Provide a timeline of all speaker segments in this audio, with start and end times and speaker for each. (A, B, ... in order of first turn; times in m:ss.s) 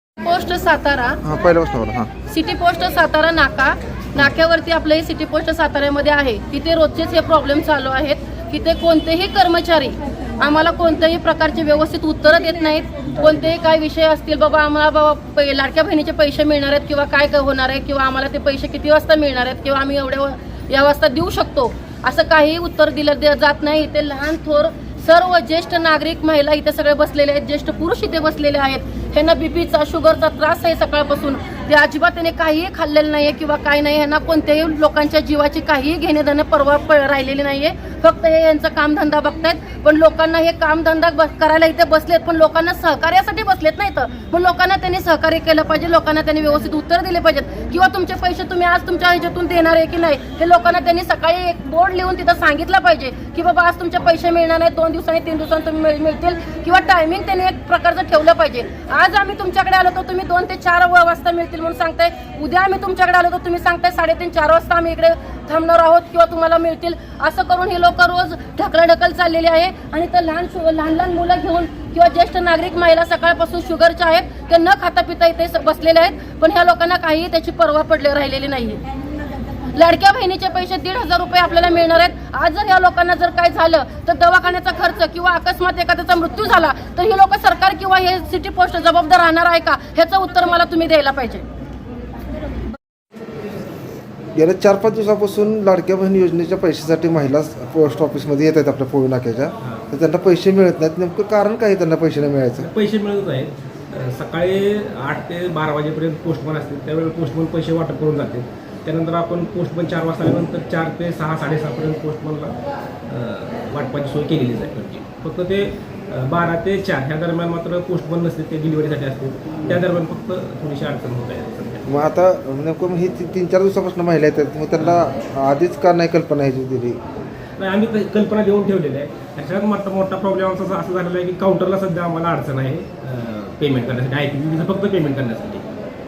0:00.2-0:01.2 A
0:01.2-0:02.1 B
0:02.3-1:18.8 A
1:19.7-1:31.4 A
1:34.3-1:42.7 B
1:42.6-1:52.5 C
1:53.1-2:01.9 C
2:01.8-2:07.0 B
2:07.6-2:15.7 C